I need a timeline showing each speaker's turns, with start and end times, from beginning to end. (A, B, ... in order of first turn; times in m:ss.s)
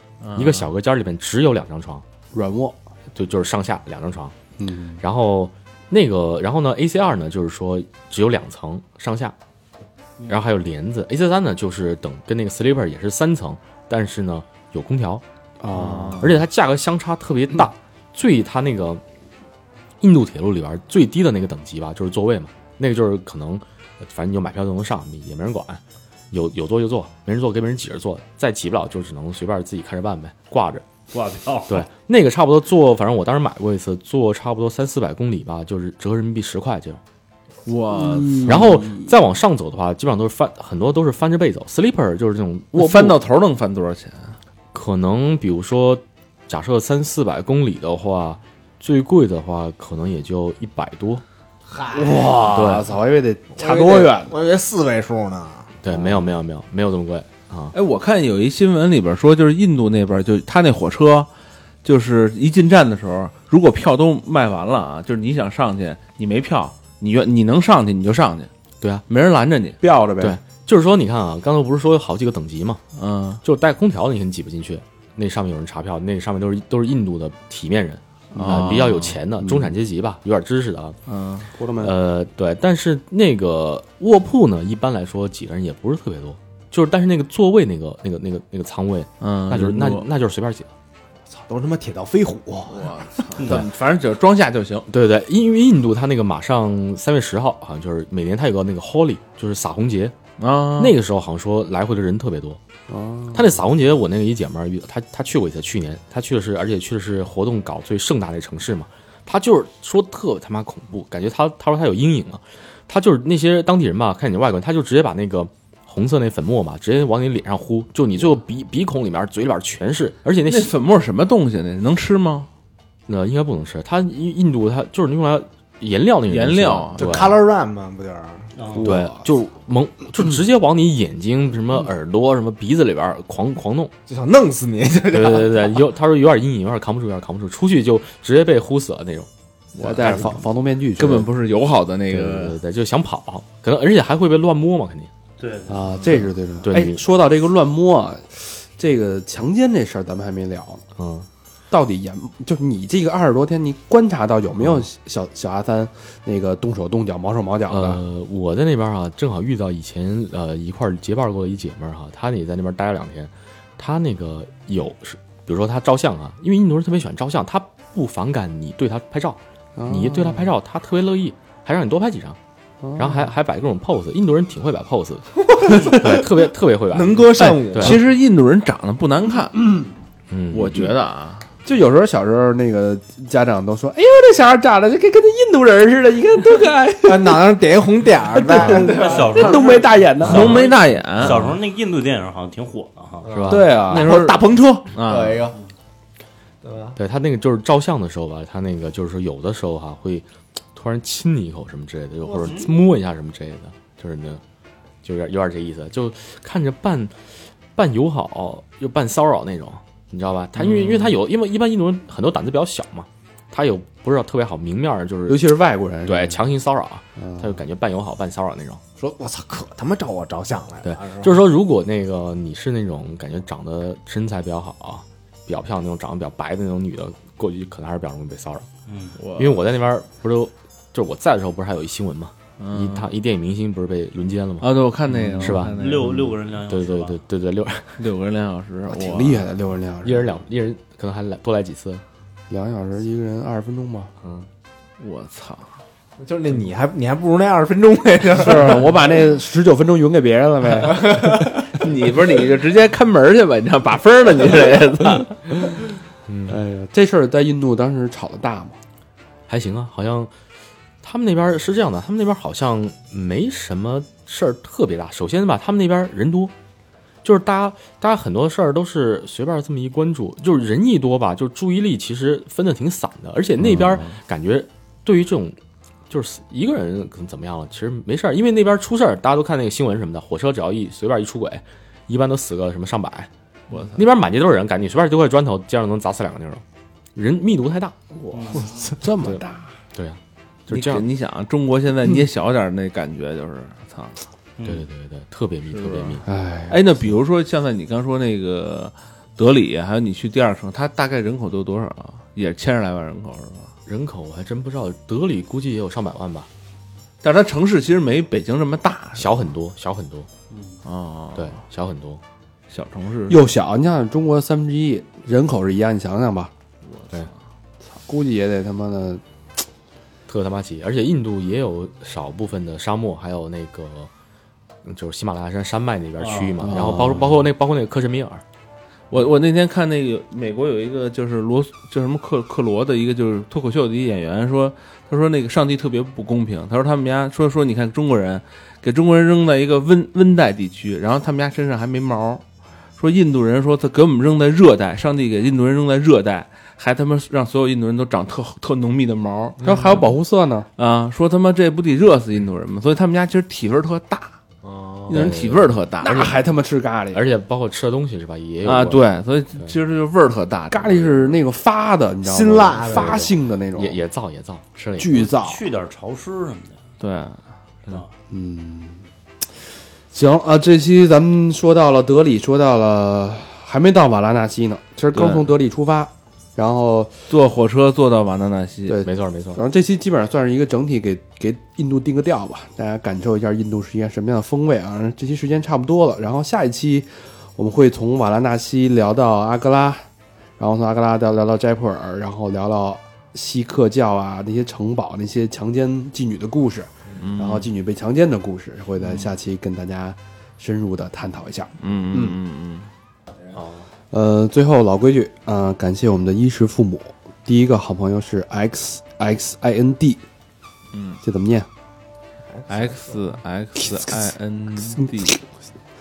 0:00.2-0:00.7 A
0:00.3-0:02.0 B
0:02.3-0:02.8 C
0:03.1-0:04.3 B
0:04.6-0:05.0 C
0:05.0-0:09.3 B
0:10.3-0:15.2 B
0:15.6-0:16.3 C
0:15.7-0:16.2 A
0:16.2-0:19.0 B
0:20.0-0:30.8 B
0:31.1-0:31.9 D
0:31.7-0:37.0 B
0:37.6-0:38.6 A
0:37.9-0:39.1 C
0:38.5-0:43.2 B
0:42.7-0:44.3 A
0:44.7-0:51.2 B
0:51.7-0:52.5 E
0:51.9-0:54.3 C
0:52.5-0:52.8 B
0:53.6-0:55.7 E
0:55.8-0:57.7 B
0:55.9-0:56.2 C
0:57.7-1:01.3 A
1:01.8-1:08.5 A
1:09.1-1:09.8 A
1:09.8-1:10.4 C
1:10.2-1:12.8 B
1:13.0-1:13.4 A
1:13.4-1:21.0 B
1:18.3-1:18.8 C
1:18.4-1:19.2 A
1:19.4-1:19.8 C
1:21.1-1:21.5 A
1:21.6-1:21.9 C
1:21.8-1:30.7 B
1:29.2-1:30.1 A
1:31.3-1:33.2 E
1:32.7-1:34.9 A
1:34.9-1:40.2 B
1:40.4-1:41.0 A
1:40.8-1:42.6 B
1:42.9-1:43.5 C
1:43.3-2:00.7 B
2:00.4-2:02.5 A
2:03.1-2:07.4 B
2:06.3-2:07.3 A
2:07.0-2:08.5 E
2:08.5-2:08.9 D
2:08.7-2:09.3 C
2:08.8-2:13.9 B
2:14.1-2:15.8 E
2:15.1-2:19.3 B
2:19.7-2:20.4 A
2:19.8-2:21.3 C
2:21.0-2:22.6 A
2:22.1-2:25.1 B
2:25.4-2:26.2 D
2:25.7-2:30.8 C
2:26.6-2:27.0 B
2:31.0-2:31.3 B
2:31.7-2:38.0 C
2:34.6-2:34.8 B
2:37.7-2:52.4 B
2:49.8-2:50.5 C
2:52.8-2:53.3 C
2:53.0-2:58.0 B
2:55.5-2:56.2 E
2:56.9-2:58.0 E
2:57.4-2:59.8 A
3:00.3-3:00.9 B
3:00.5-3:01.4 A
3:01.6-3:07.5 C
3:07.0-3:09.6 E
3:08.3-3:10.7 C
3:08.6-3:13.3 D
3:10.2-3:11.5 A
3:13.2-3:15.6 E
3:13.2-3:13.7 B
3:13.5-3:14.1 C
3:13.8-3:15.5 A
3:16.6-3:17.0 E
3:17.0-3:24.4 B
3:22.2-3:22.7 E
3:25.0-3:27.1 B
3:27.7-3:35.5 B
3:30.6-3:31.1 A
3:35.3-3:36.4 C
3:36.0-3:38.8 B
3:37.2-3:37.5 C
3:39.0-3:41.4 E
3:40.8-3:48.7 B
3:48.8-3:49.2 D
3:49.2-3:49.6 A
3:49.4-3:54.8 B
3:52.6-3:53.1 A
3:54.6-3:56.3 A
3:55.2-3:55.6 C
3:55.4-3:55.8 B
3:55.7-3:57.2 D
3:56.7-3:58.0 B
3:58.0-3:59.5 A
3:58.9-4:00.3 C
4:00.0-4:02.0 B
4:02.5-4:04.1 C
4:04.2-4:04.5 B
4:05.0-4:05.6 A
4:06.2-4:09.0 E
4:08.4-4:11.7 C
4:11.0-4:11.4 E
4:11.7-4:15.7 A
4:16.3-4:16.5 B
4:16.5-4:18.8 C
4:19.5-4:20.3 B
4:21.0-4:26.5 B
4:27.2-4:35.6 B
4:33.7-4:34.0 A
4:36.1-4:43.3 B
4:43.7-4:44.0 A
4:43.9-4:46.6 B
4:47.2-4:47.9 B
4:48.3-4:48.7 A
4:48.3-4:49.0 D
4:48.7-4:49.7 C
4:49.9-4:51.0 B
4:50.7-4:54.2 A
4:54.6-4:54.8 D
4:54.6-4:56.2 B
4:55.7-5:03.7 A
4:56.3-4:56.9 C
5:03.9-5:06.5 B
5:07.2-5:09.4 A
5:09.2-5:10.3 B
5:10.5-5:10.8 D
5:10.8-5:11.6 A
5:11.3-5:12.2 B
5:12.7-5:13.4 A
5:13.3-5:16.5 C
5:16.9-5:17.3 A
5:18.0-5:19.2 C
5:20.3-5:24.1 B
5:24.8-5:28.4 B
5:26.2-5:26.8 D
5:26.6-5:27.4 C
5:29.1-5:42.4 A
5:43.0-5:49.6 A
5:49.6-5:50.7 C
5:50.8-5:54.3 A
5:54.6-5:55.3 E
5:55.1-5:56.3 A
5:55.1-5:56.2 B
5:56.0-5:57.2 C
5:57.1-5:59.0 B
5:58.6-6:01.3 A
6:00.7-6:04.0 C
6:02.2-6:03.3 E
6:03.7-6:05.3 B
6:05.0-6:05.6 C
6:05.1-6:06.8 D
6:07.0-6:07.4 A
6:08.3-6:09.0 C
6:10.1-6:17.1 C
6:15.1-6:15.4 A
6:17.3-6:19.0 A
6:18.9-6:30.0 C
6:19.0-6:19.6 B
6:30.6-6:42.4 C
6:37.2-6:37.7 A
6:41.8-6:42.9 A
6:44.1-6:50.2 C
6:50.9-6:51.2 A
6:51.2-6:51.7 C
6:52.5-6:53.3 E
6:52.7-6:55.4 A
6:53.8-6:54.1 C
6:54.8-6:55.4 C